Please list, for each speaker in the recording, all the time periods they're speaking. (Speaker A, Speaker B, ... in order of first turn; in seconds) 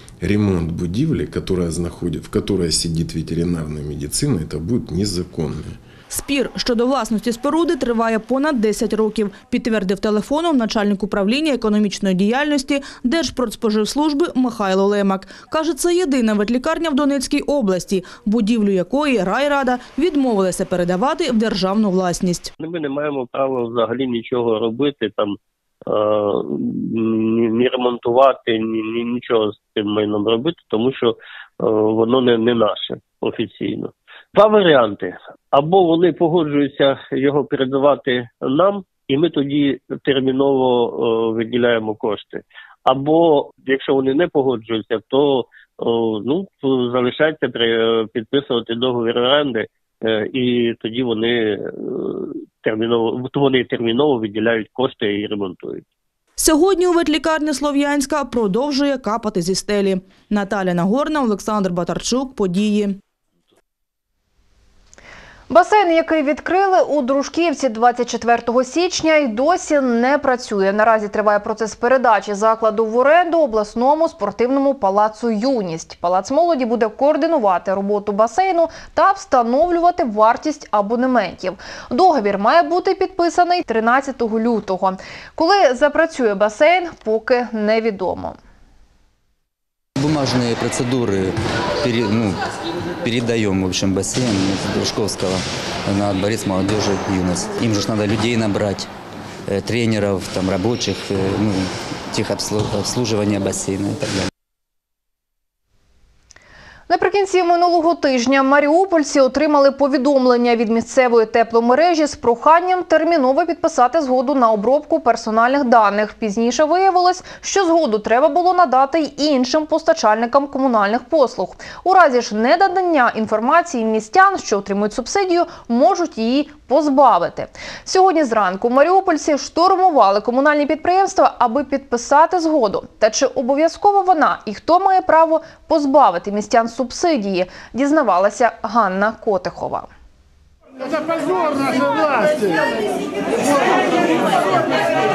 Speaker A: 0.2-5.8
Speaker B: 6.1-22.5, 56.4-63.0
Speaker C: 22.6-55.8
Speaker D: 65.5-88.3, 106.9-139.9
Speaker E: 90.0-92.4, 93.0-98.9, 99.5-104.3